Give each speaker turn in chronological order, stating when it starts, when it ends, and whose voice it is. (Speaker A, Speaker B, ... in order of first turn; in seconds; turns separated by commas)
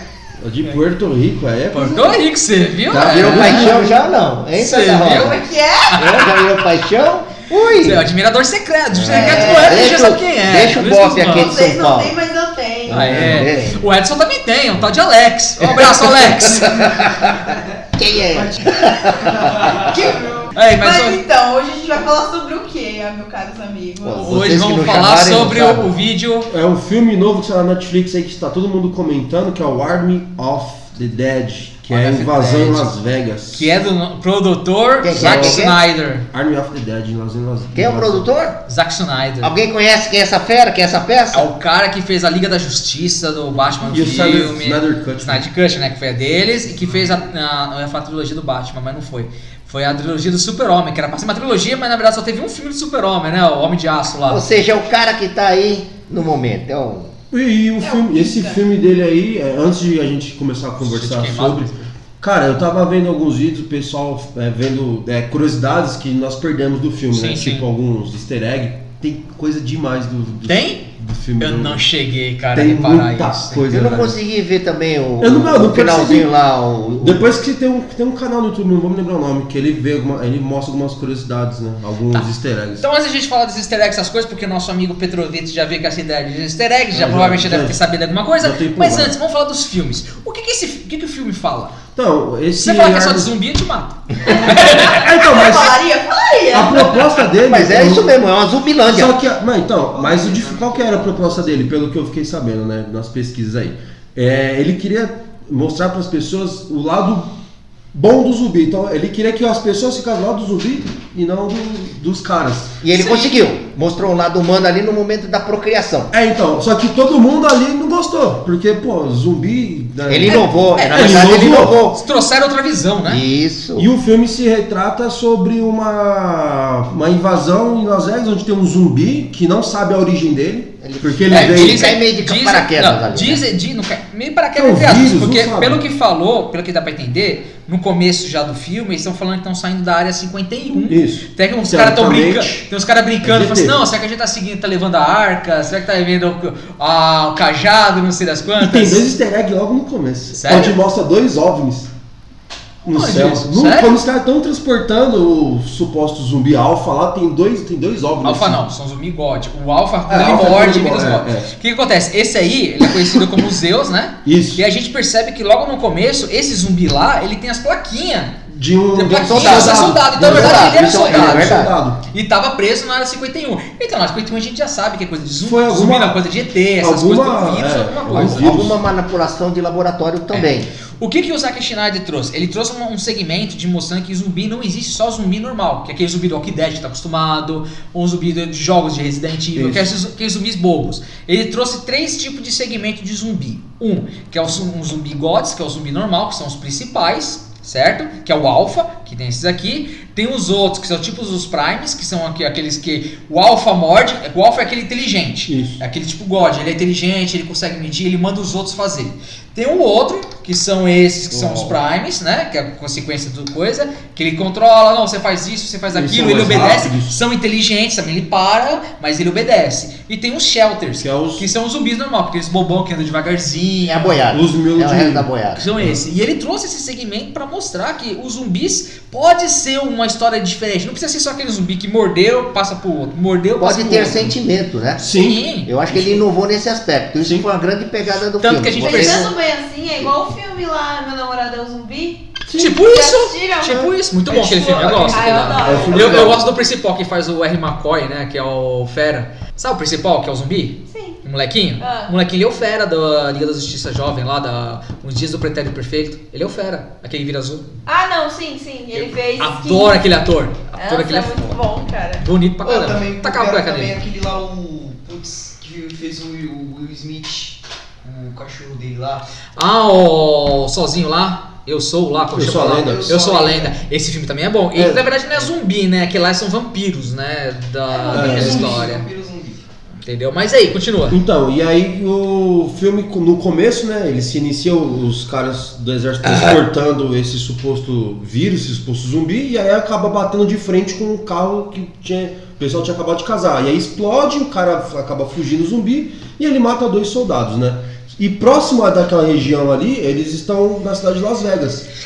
Speaker A: 0.4-2.3, Speaker B: 1.7-3.9, Speaker A: 2.9-4.0, Speaker C: 3.0-5.4, Speaker B: 4.5-6.3, Speaker D: 5.0-6.3, Speaker C: 5.9-8.1, Speaker B: 7.8-11.6, Speaker C: 8.9-12.2, Speaker D: 9.1-9.9, Speaker D: 11.3-13.4, Speaker C: 12.8-13.8, Speaker B: 12.9-16.9, Speaker C: 15.6-19.7, Speaker E: 19.5-20.5, Speaker D: 19.7-24.3, Speaker B: 20.5-21.2, Speaker C: 24.0-26.0, Speaker B: 24.1-26.5, Speaker A: 26.5-33.7, Speaker B: 31.9-32.9, Speaker B: 33.5-36.2, Speaker C: 35.0-35.8, Speaker A: 35.1-35.7, Speaker A: 36.3-38.3, Speaker C: 37.7-38.6, Speaker B: 38.7-39.5, Speaker C: 39.4-41.5, Speaker B: 41.3-54.4, Speaker A: 43.9-45.5, Speaker C: 54.3-57.1, Speaker A: 57.3-71.8, Speaker D: 57.8-58.6, Speaker B: 60.8-61.9, Speaker B: 67.1-67.6, Speaker B: 70.4-70.8, Speaker B: 71.4-73.7, Speaker A: 72.5-74.1, Speaker C: 73.7-77.2, Speaker A: 75.2-76.3, Speaker A: 77.0-82.8, Speaker B: 82.8-91.7, Speaker A: 86.9-87.8, Speaker A: 88.4-89.1, Speaker A: 91.9-93.3, Speaker B: 92.5-95.0, Speaker D: 94.2-97.1, Speaker A: 94.3-95.8, Speaker A: 96.5-98.2, Speaker C: 97.3-99.2, Speaker A: 98.8-107.3, Speaker E: 99.9-101.7, Speaker A: 107.9-112.8, Speaker C: 112.8-116.1, Speaker B: 112.9-113.4, Speaker A: 116.1-121.8, Speaker C: 120.1-122.0, Speaker B: 120.2-123.2, Speaker C: 123.0-123.9, Speaker A: 123.8-131.9, Speaker C: 130.8-133.4, Speaker B: 131.3-149.1, Speaker A: 134.5-135.8, Speaker A: 140.9-142.7, Speaker A: 143.2-143.8, Speaker A: 148.6-151.9, Speaker B: 150.3-150.8, Speaker A: 152.8-158.6, Speaker B: 152.9-154.0, Speaker B: 158.2-168.4, Speaker A: 160.1-161.5, Speaker A: 162.8-163.2, Speaker A: 164.2-164.6, Speaker A: 168.5-172.0, Speaker B: 168.9-178.6, Speaker C: 169.2-171.7, Speaker A: 175.4-176.2, Speaker A: 176.8-178.8, Speaker C: 178.1-180.7, Speaker B: 180.3-224.2, Speaker A: 189.5-189.9, Speaker A: 205.5-205.8, Speaker A: 211.3-211.8, Speaker A: 215.9-217.2, Speaker A: 221.0-221.4, Speaker C: 223.8-225.6, Speaker A: 224.3-225.9, Speaker B: 225.5-234.3, Speaker C: 233.6-235.0, Speaker A: 235.0-236.2, Speaker B: 235.1-235.7, Speaker C: 235.7-239.3, Speaker A: 237.2-237.5, Speaker B: 238.4-239.3, Speaker D: 238.8-246.2, Speaker A: 242.5-242.7, Speaker B: 242.6-257.7, Speaker E: 244.3-246.0, Speaker A: 245.6-246.4, Speaker D: 250.9-251.2, Speaker D: 251.8-252.1, Speaker D: 257.9-260.0, Speaker B: 258.9-261.6, Speaker D: 260.8-262.2, Speaker B: 262.2-264.0, Speaker E: 262.6-269.2, Speaker B: 269.6-279.1, Speaker A: 272.3-273.1, Speaker E: 272.4-273.7, Speaker A: 274.7-275.1, Speaker E: 277.9-279.6, Speaker A: 278.1-278.8, Speaker B: 280.0-281.2, Speaker A: 281.1-301.9